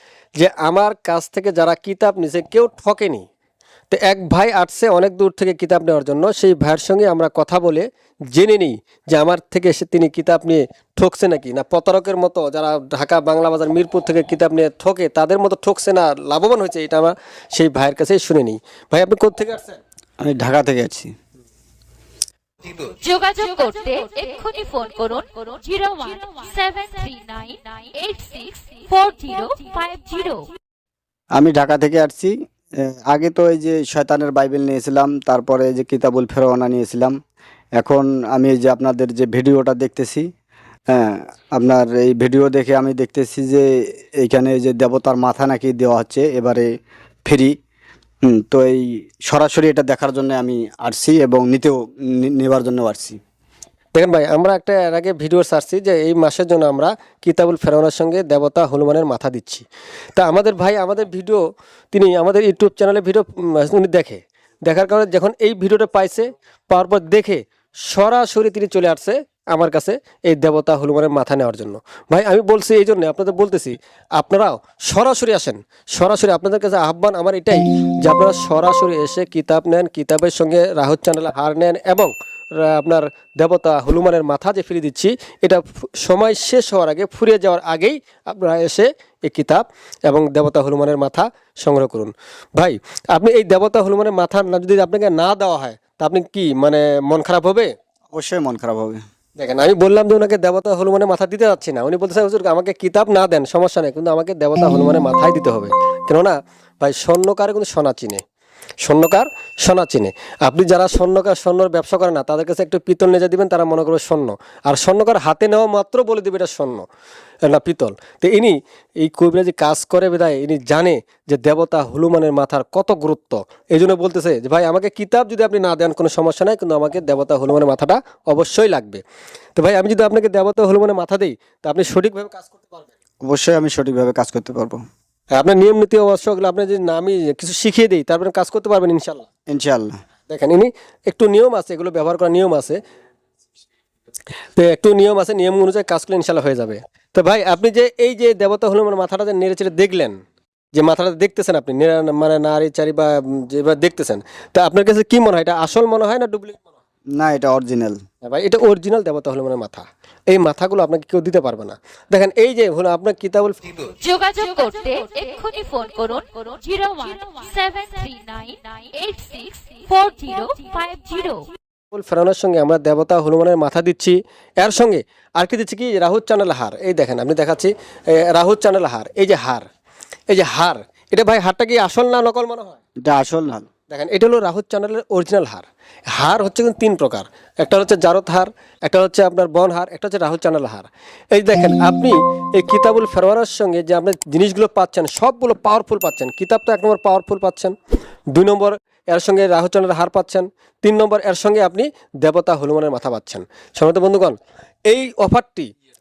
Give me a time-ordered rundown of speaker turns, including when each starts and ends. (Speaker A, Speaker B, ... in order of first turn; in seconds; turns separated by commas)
Speaker A: 0.4-3.2, Speaker A: 3.9-19.8, Speaker B: 20.2-21.1, Speaker C: 22.7-30.5, Speaker B: 31.4-37.1, Speaker B: 37.8-40.3, Speaker B: 40.9-43.7, Speaker B: 44.2-46.7, Speaker B: 47.2-47.5, Speaker B: 48.2-53.2, Speaker A: 53.9-59.6, Speaker A: 60.2-61.4, Speaker A: 61.9-97.7, Speaker B: 98.1-99.0, Speaker A: 99.4-108.2, Speaker A: 108.8-116.8, Speaker A: 117.4-129.0, Speaker A: 129.6-132.9, Speaker B: 133.2-134.8, Speaker A: 135.3-139.2, Speaker B: 139.5-140.0, Speaker A: 140.3-142.8, Speaker A: 144.6-150.2, Speaker A: 150.7-156.6, Speaker B: 157.2-158.0, Speaker A: 158.2-163.9, Speaker C: 164.0-171.5, Speaker A: 171.9-179.7, Speaker A: 180.3-182.8, Speaker B: 183.0-183.7, Speaker A: 183.9-197.7, Speaker A: 198.3-205.7